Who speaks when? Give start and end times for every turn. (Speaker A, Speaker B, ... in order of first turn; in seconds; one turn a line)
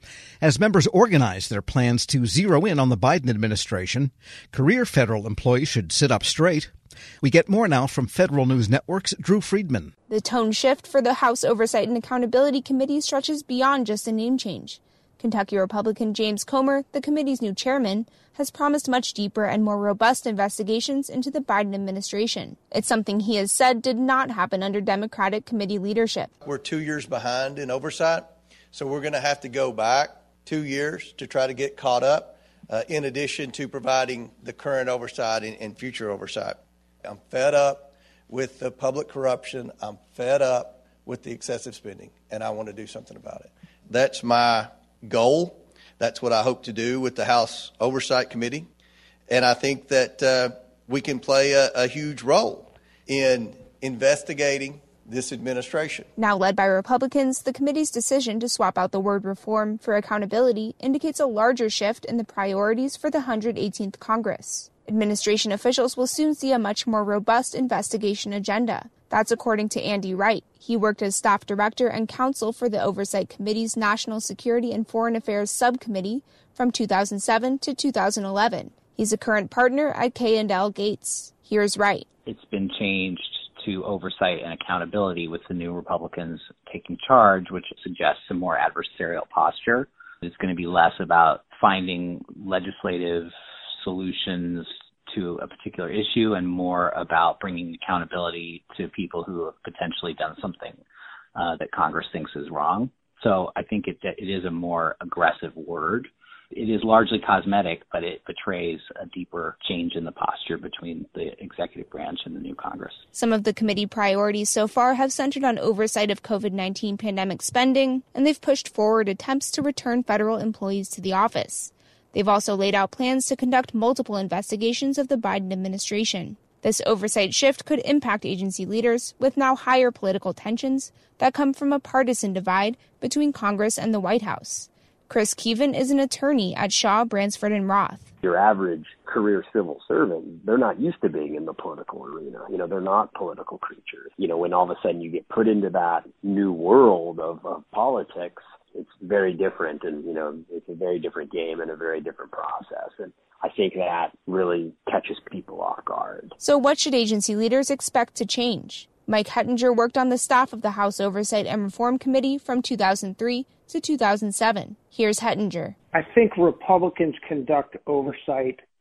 Speaker A: 0.4-6.7
Speaker A: 7.2-9.9
Speaker B: 10.1-26.3
Speaker C: 26.4-48.7
Speaker C: 49.3-56.1
Speaker B: 56.2-82.1
Speaker D: 82.3-100.8
Speaker D: 101.3-113.0
Speaker B: 113.1-138.1
Speaker E: 138.2-156.4
Speaker B: 156.4-165.8
Speaker F: 165.9-168.6